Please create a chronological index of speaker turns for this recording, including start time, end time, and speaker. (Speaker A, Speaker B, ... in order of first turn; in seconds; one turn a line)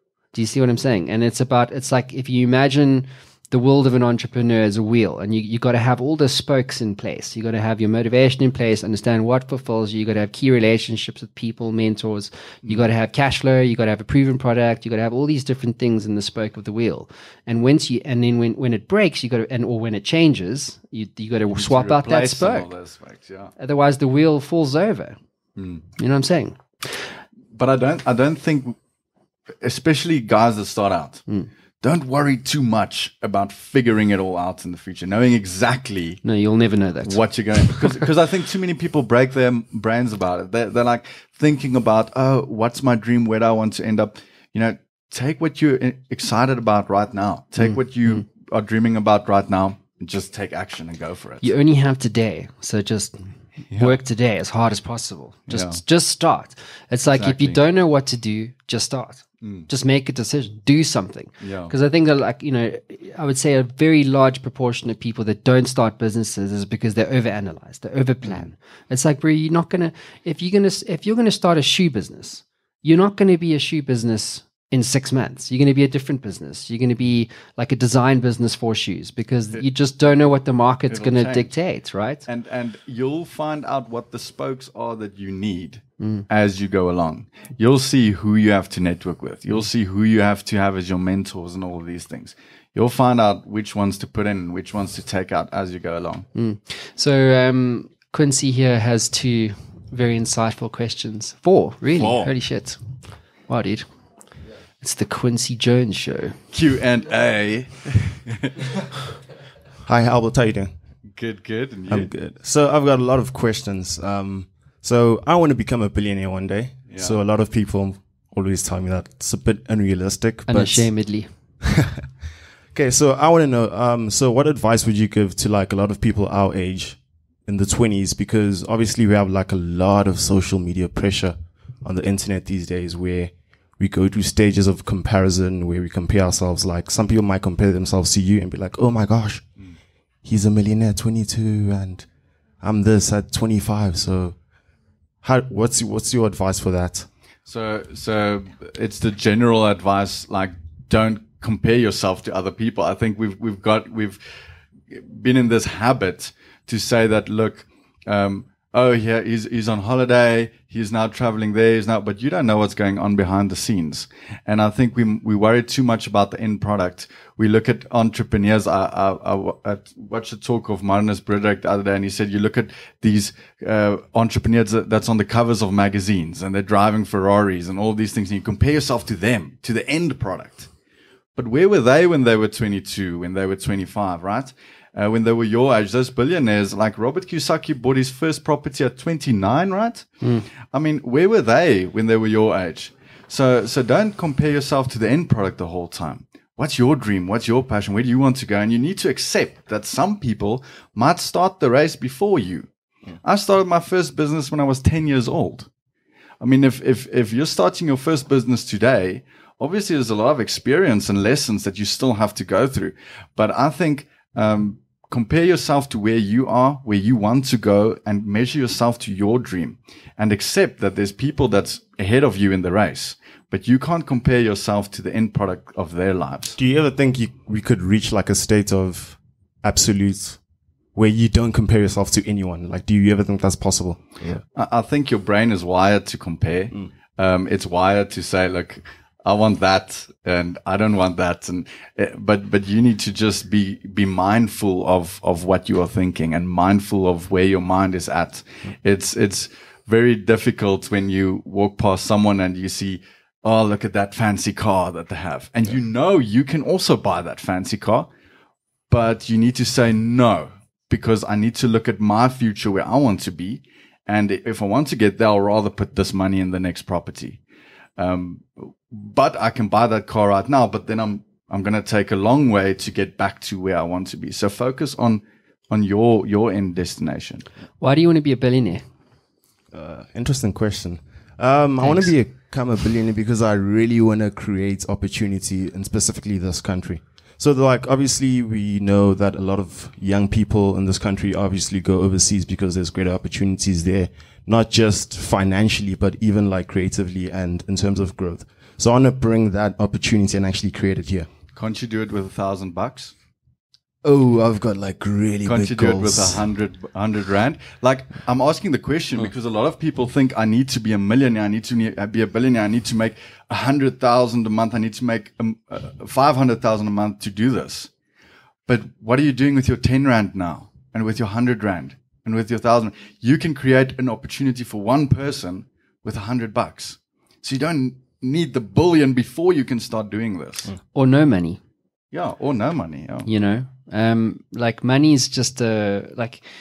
Speaker A: 0.3-22.7
Speaker B: 21.5-23.5
Speaker A: 23.6-25.2
Speaker B: 25.6-25.8
Speaker A: 26.0-27.2
Speaker B: 27.5-28.8
Speaker B: 29.6-31.2
Speaker B: 31.8-36.2
Speaker A: 36.2-37.9
Speaker B: 37.0-51.5
Speaker A: 51.4-82.2
Speaker B: 53.7-54.0
Speaker B: 55.5-55.8
Speaker B: 57.1-57.6
Speaker B: 59.4-59.7
Speaker B: 61.4-61.7
Speaker B: 68.2-68.5
Speaker B: 80.9-81.5
Speaker B: 82.3-96.3
Speaker A: 86.0-86.3
Speaker A: 96.3-102.8
Speaker A: 103.5-103.9
Speaker A: 104.8-106.4
Speaker B: 106.5-108.5
Speaker C: 109.9-110.7
Speaker B: 111.1-112.1
Speaker C: 111.9-120.9
Speaker A: 120.5-121.3
Speaker C: 121.6-121.9
Speaker C: 122.7-139.5
Speaker C: 140.2-142.1
Speaker C: 142.6-144.4
Speaker C: 145.2-147.1
Speaker B: 147.5-154.2
Speaker B: 154.9-180.7
Speaker B: 181.4-202.7
Speaker A: 190.2-190.5
Speaker B: 203.2-205.7
Speaker B: 206.4-226.6
Speaker C: 226.6-230.4
Speaker C: 230.9-234.4
Speaker B: 234.5-258.1
Speaker B: 258.9-267.4
Speaker B: 268.0-277.4
Speaker A: 277.8-278.8
Speaker C: 279.7-301.3
Speaker A: 281.8-282.1
Speaker B: 301.6-303.1
Speaker C: 304.0-306.4
Speaker B: 305.5-317.9
Speaker B: 318.7-330.7
Speaker A: 330.9-331.6
Speaker B: 332.1-333.3
Speaker A: 333.3-336.4